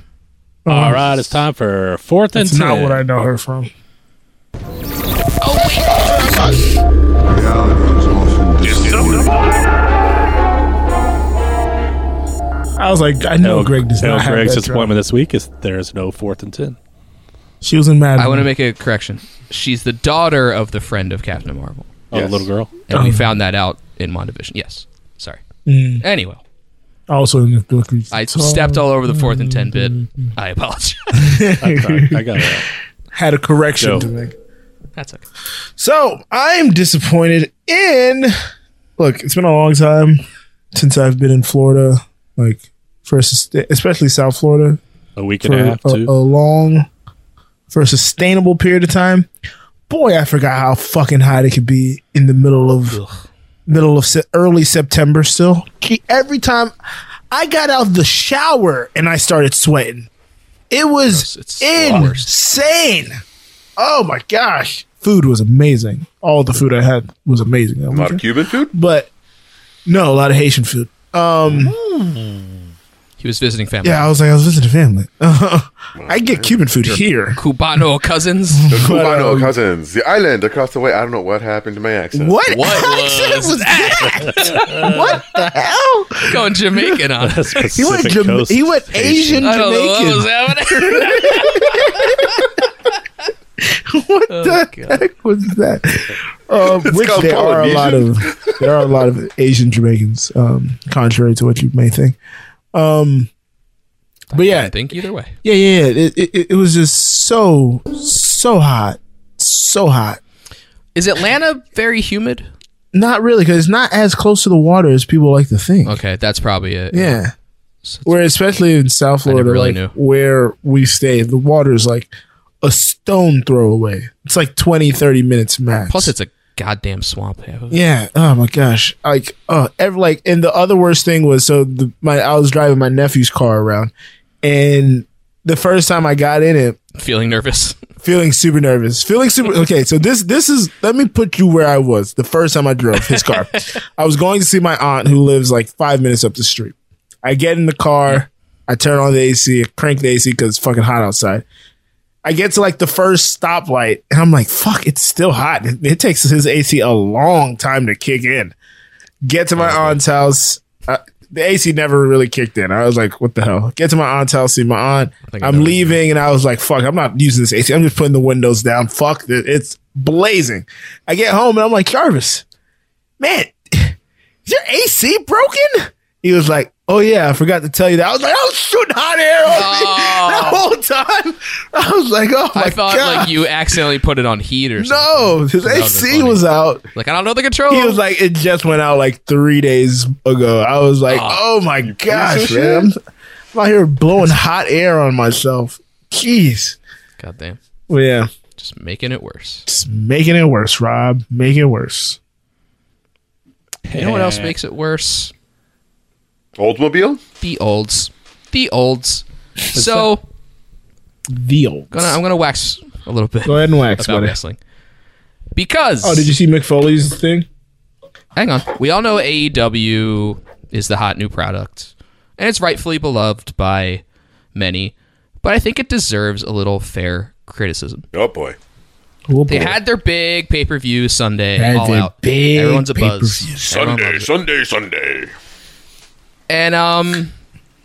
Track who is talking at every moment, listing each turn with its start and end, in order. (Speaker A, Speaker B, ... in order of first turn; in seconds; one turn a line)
Speaker A: 0.6-1.2
Speaker B: 0.7-3.0
Speaker A: 2.3-3.7
Speaker C: 5.4-6.6
Speaker A: 6.2-6.5
Speaker D: 8.6-9.2
Speaker A: 8.8-9.2
Speaker A: 12.8-14.9
Speaker B: 13.4-16.8
Speaker A: 17.6-18.5
Speaker C: 18.2-21.9
Speaker B: 22.1-22.7
Speaker D: 22.1-22.4
Speaker C: 22.9-25.4
Speaker A: 22.9-23.3
Speaker A: 25.6-26.0
Speaker C: 26.0-26.4
Speaker A: 27.1-30.3
Speaker C: 28.1-31.4
Speaker A: 31.1-34.3
Speaker B: 31.6-32.7
Speaker B: 33.8-34.1
Speaker C: 35.0-35.2
Speaker A: 35.8-38.3
Speaker A: 39.0-40.2
Speaker A: 40.7-44.8
Speaker B: 45.1-46.1
Speaker A: 45.4-46.9
Speaker A: 47.7-49.3
Speaker A: 49.9-53.0
Speaker C: 52.9-53.2
Speaker A: 53.7-56.7
Speaker A: 57.3-60.1
Speaker A: 60.7-63.2
Speaker C: 61.1-62.3
Speaker A: 63.8-69.1
Speaker D: 67.9-68.7
Speaker A: 69.8-71.7
Speaker C: 73.2-74.1
Speaker A: 73.8-77.4
Speaker D: 76.0-76.6
Speaker C: 76.9-78.7
Speaker A: 78.5-79.5
Speaker D: 78.7-82.4
Speaker A: 82.1-87.0
Speaker C: 82.5-85.3
Speaker C: 86.2-87.5
Speaker B: 87.2-89.5
Speaker A: 87.7-92.5
Speaker C: 89.4-92.4
Speaker A: 93.6-102.2
Speaker C: 94.3-95.0
Speaker D: 96.7-98.6
Speaker A: 102.7-103.3
Speaker C: 104.3-105.3
Speaker A: 104.3-104.7
Speaker A: 105.4-110.2
Speaker C: 110.9-112.5
Speaker A: 112.9-116.0
Speaker C: 115.8-117.2
Speaker A: 116.9-117.3
Speaker C: 117.8-118.3
Speaker A: 118.0-126.1
Speaker C: 119.2-119.9
Speaker C: 125.9-127.8
Speaker A: 127.7-136.8
Speaker C: 136.9-137.8
Speaker A: 138.0-151.4
Speaker C: 143.1-143.7
Speaker A: 152.2-158.5
Speaker A: 159.2-172.4
Speaker C: 159.6-160.0
Speaker C: 165.3-166.0
Speaker A: 173.2-183.3
Speaker C: 179.5-180.6
Speaker C: 182.5-188.0
Speaker A: 184.8-186.8
Speaker A: 187.7-193.0
Speaker C: 191.1-191.4
Speaker D: 191.8-192.9
Speaker A: 193.5-196.8
Speaker C: 197.2-197.6
Speaker A: 197.9-198.3
Speaker C: 198.6-199.7
Speaker A: 199.7-202.2
Speaker B: 203.8-204.5
Speaker C: 203.9-205.3
Speaker D: 206.6-207.2
Speaker C: 207.4-210.2
Speaker B: 209.8-210.1
Speaker A: 211.3-212.2
Speaker C: 211.9-214.6
Speaker A: 213.4-214.4
Speaker C: 215.5-216.3
Speaker A: 216.0-217.5
Speaker C: 218.3-224.0
Speaker C: 224.5-228.0
Speaker D: 228.1-228.6
Speaker A: 229.3-229.8
Speaker C: 229.5-234.3
Speaker A: 231.6-233.8
Speaker D: 233.7-235.3
Speaker C: 236.5-237.3